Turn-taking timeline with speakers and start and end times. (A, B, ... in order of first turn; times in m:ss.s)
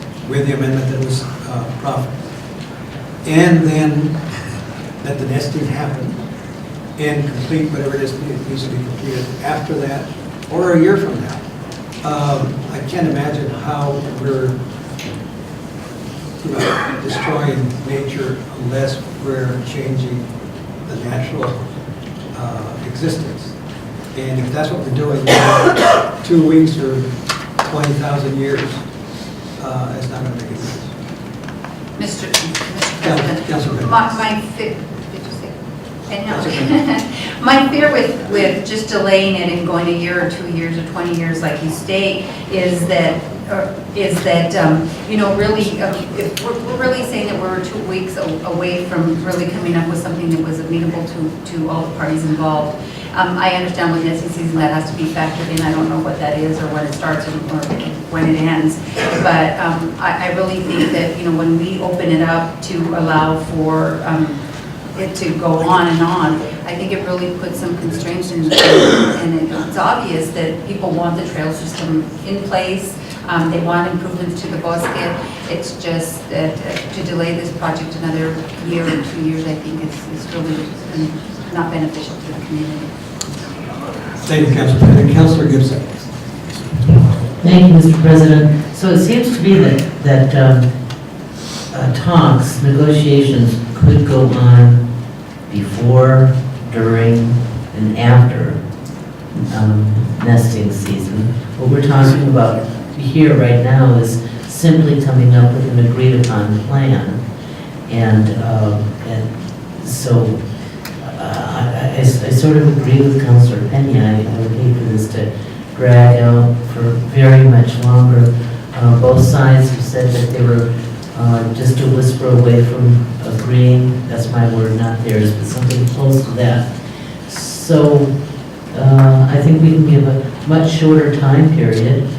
0:00.3-0:02.1 A
0:03.2-0:04.2 A
0:05.0-0:06.2 A
0:07.0-0:11.4 A
0:12.0-0:14.6 A
0:16.4-0:20.3 A
0:20.9-0:21.7 A
0:22.3-0:23.5 A
0:24.1-0:27.1 A
0:27.6-0:28.8 A
0:29.6-0:30.9 A
0:32.0-1:04.4 B
0:33.0-0:34.1 A
0:36.3-0:36.7 A
1:04.9-1:22.9 B
1:24.2-1:26.1 A
1:27.4-1:30.7 C
1:31.7-1:34.8 C
1:35.5-1:38.6 C
1:39.5-1:47.2 C
1:47.9-1:50.4 C
1:51.0-2:06.7 C
2:07.3-2:08.1 C
2:08.7-2:12.0 C